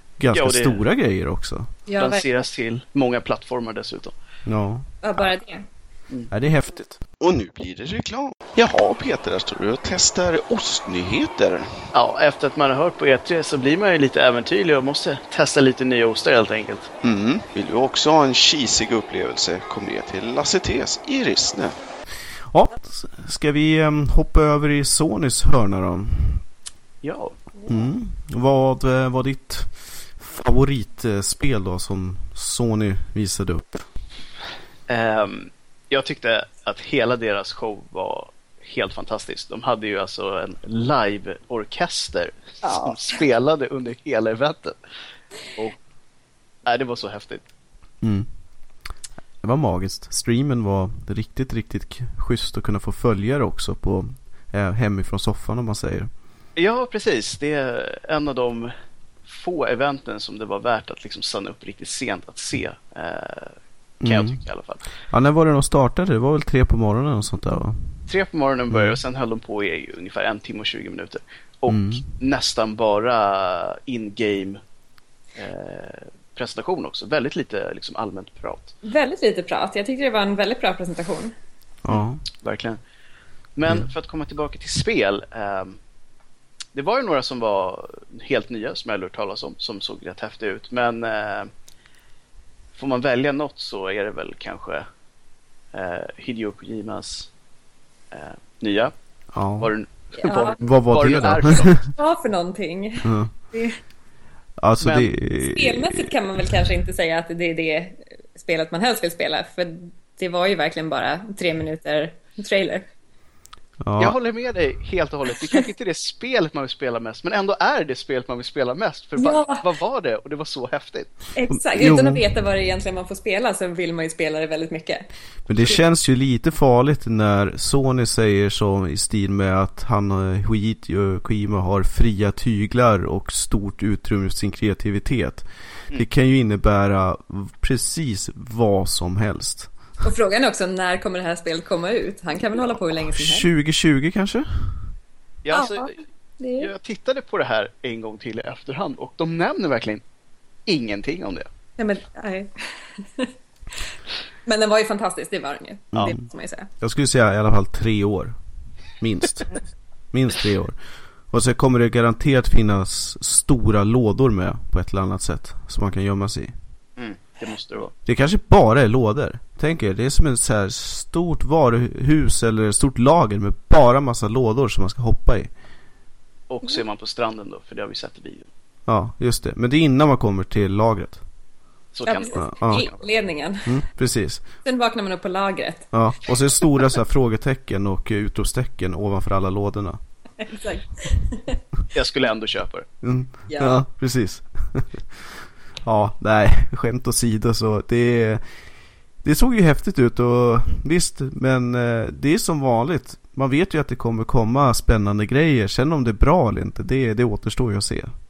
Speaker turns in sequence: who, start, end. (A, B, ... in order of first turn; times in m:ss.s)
0:00.2-0:01.7 A
0:00.3-0:00.8 B
0:01.9-0:02.2 C
0:02.0-0:04.1 B
0:04.4-0:04.9 A
0:05.0-0:05.6 C
0:06.3-0:07.0 A
0:07.2-0:11.9 D
0:11.9-0:16.9 B
0:17.0-0:21.8 D
0:22.4-0:26.4 A
0:27.0-0:27.4 B
0:27.7-0:33.9 A
0:34.9-0:44.8 B
0:42.6-0:43.0 C
0:46.6-0:47.4 B
0:48.0-0:48.3 A
0:49.4-0:56.1 A
0:56.6-0:58.7 B
0:59.2-1:04.9 B
1:04.0-1:04.4 A
1:05.1-1:08.0 A
1:08.1-1:14.6 B
1:08.7-1:09.0 A
1:11.7-1:12.0 A
1:15.3-1:18.7 B
1:18.8-1:21.3 C
1:21.8-1:22.2 A
1:21.9-1:22.8 B
1:23.6-1:25.8 B
1:26.7-1:31.5 B
1:32.7-1:34.8 B
1:35.7-1:37.3 B
1:38.1-1:38.9 B
1:39.3-1:39.7 A
1:39.6-1:41.9 B
1:40.2-1:40.5 C
1:40.6-1:41.8 A
1:41.9-1:43.8 C
1:43.0-1:43.3 A
1:44.6-1:46.1 A
1:44.8-1:45.1 B
1:45.3-1:52.9 C
1:53.8-1:54.2 A
1:54.0-2:01.1 B
1:59.2-1:59.6 C
2:01.4-2:05.8 C
2:01.5-2:02.2 A
2:05.5-2:19.7 A
2:20.0-2:23.4 C
2:23.0-2:24.9 A
2:25.4-2:25.9 B
2:25.5-2:26.7 C
2:26.6-2:30.0 B
2:30.6-2:31.5 B
2:31.8-2:33.3 C
2:34.4-2:36.7 C
2:35.9-2:36.2 A
2:36.8-2:38.4 A
2:39.0-2:39.6 A
2:40.1-2:40.8 A
2:41.3-2:46.5 A
2:47.0-2:47.9 B
2:48.0-2:55.5 A
2:56.5-2:58.5 B
2:58.9-3:01.2 A
3:01.9-3:03.0 B
3:02.0-3:03.7 C
3:02.4-3:02.9 A
3:03.6-3:04.4 A
3:04.6-3:06.6 C
3:05.9-3:10.0 A
3:10.4-3:11.6 C
3:11.9-3:12.8 B
3:13.0-3:18.4 A
3:13.5-3:13.8 C
3:19.2-3:28.1 A